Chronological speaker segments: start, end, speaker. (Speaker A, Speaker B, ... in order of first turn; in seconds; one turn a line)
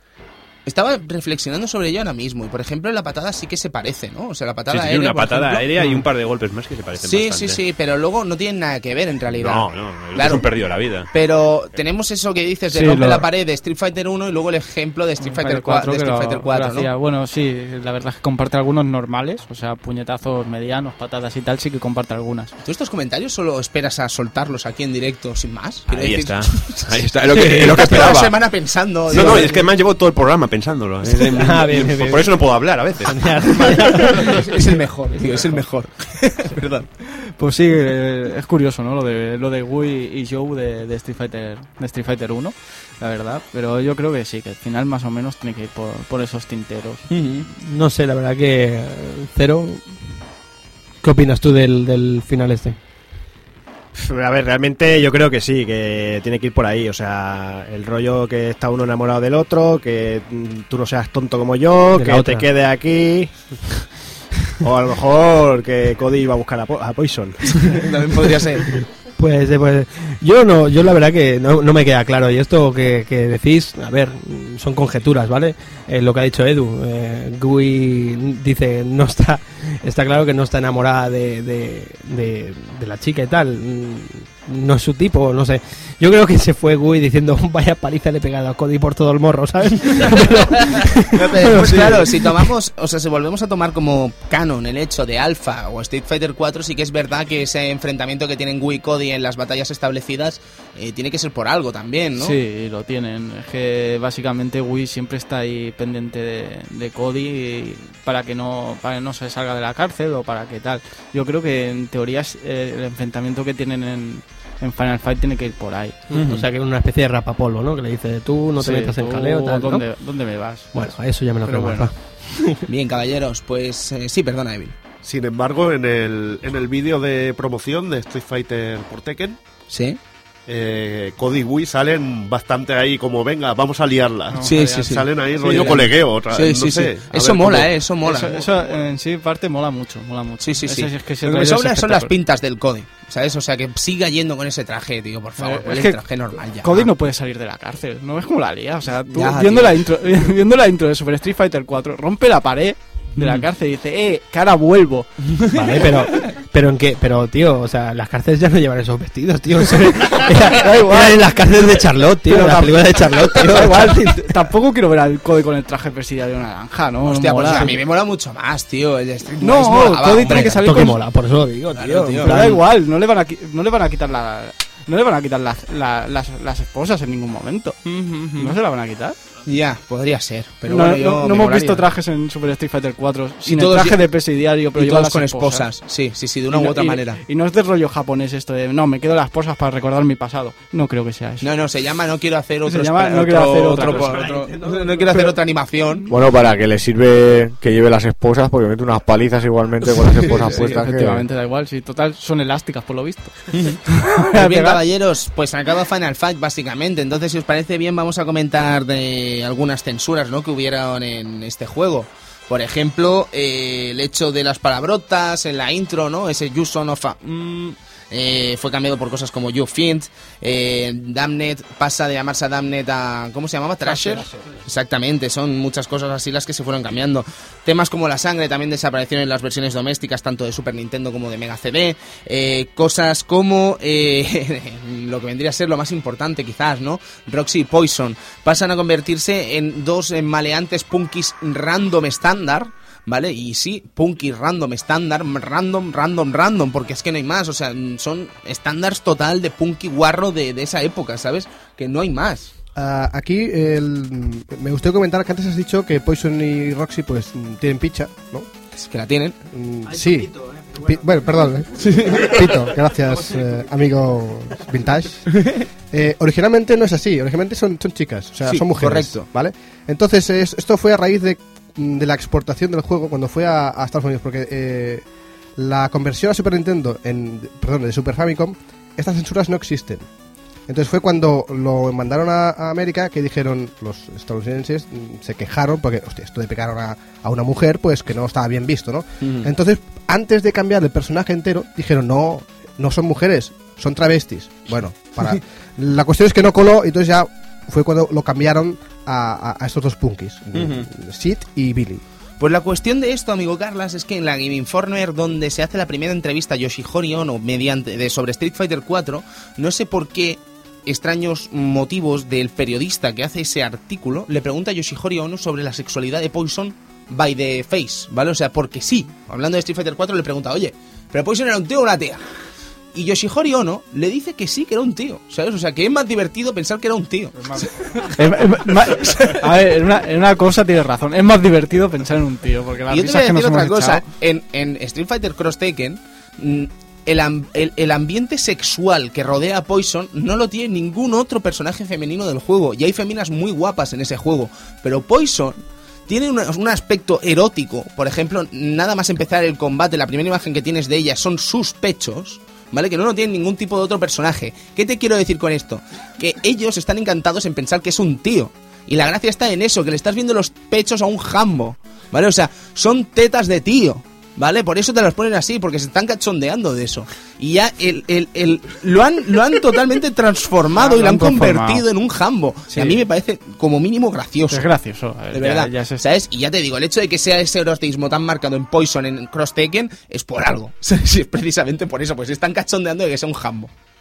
Speaker A: 0.7-5.7
Speaker B: 4.7-7.6
Speaker A: 7.0-10.5
Speaker B: 9.3-11.1
Speaker A: 11.1-16.9
Speaker C: 12.7-13.3
Speaker C: 15.2-22.5
Speaker A: 22.6-29.6
Speaker B: 25.9-28.4
Speaker D: 27.3-27.8
Speaker B: 29.1-34.4
Speaker D: 29.1-29.6
Speaker D: 31.0-32.4
Speaker D: 33.0-34.5
Speaker A: 34.2-36.9
Speaker C: 37.2-47.0
Speaker A: 47.1-47.4
Speaker D: 47.5-50.1
Speaker D: 51.0-52.8
Speaker E: 53.9-63.3
Speaker D: 61.9-62.5
Speaker E: 64.6-67.7
Speaker A: 67.5-68.8
Speaker D: 69.2-92.5
Speaker A: 91.1-102.4
Speaker C: 102.2-116.0
Speaker B: 116.1-116.5
Speaker D: 116.1-119.8
Speaker C: 118.6-120.9
Speaker D: 120.7-122.6
Speaker C: 121.4-121.9
Speaker A: 122.7-124.7
Speaker F: 125.0-129.4
Speaker A: 129.7-130.0
Speaker F: 130.5-137.7
Speaker C: 134.3-135.9
Speaker A: 134.4-138.4
Speaker C: 138.0-142.1
Speaker A: 140.4-146.9
Speaker C: 145.4-146.0
Speaker C: 146.6-155.3
Speaker A: 149.1-149.8
Speaker A: 155.3-155.6
Speaker D: 155.5-164.5
Speaker C: 160.2-161.3
Speaker C: 162.2-167.8
Speaker A: 167.1-170.6
Speaker C: 169.4-171.0
Speaker D: 170.2-172.6
Speaker A: 171.7-172.4
Speaker C: 172.2-179.2
Speaker A: 177.8-178.6
Speaker A: 179.4-181.8
Speaker C: 180.7-185.7
Speaker A: 183.4-184.0
Speaker A: 184.7-187.2
Speaker C: 186.5-191.5
Speaker A: 191.4-196.0
Speaker C: 192.6-195.3
Speaker G: 196.1-201.2
Speaker C: 200.1-204.8
Speaker A: 203.5-252.5
Speaker C: 223.8-224.3
Speaker H: 252.8-258.5
Speaker A: 258.8-259.4
Speaker H: 259.5-275.1
Speaker A: 261.8-262.4
Speaker A: 265.3-265.6
Speaker A: 268.4-269.3
Speaker H: 275.6-280.1
Speaker H: 280.7-302.0
Speaker A: 289.2-289.5
Speaker A: 302.4-322.2
Speaker A: 322.9-327.7
Speaker C: 327.4-334.1
Speaker A: 329.0-329.3
Speaker A: 332.9-345.6
Speaker A: 346.1-374.7
Speaker C: 370.8-371.9
Speaker C: 372.7-373.0
Speaker C: 374.5-376.0
Speaker A: 375.3-383.7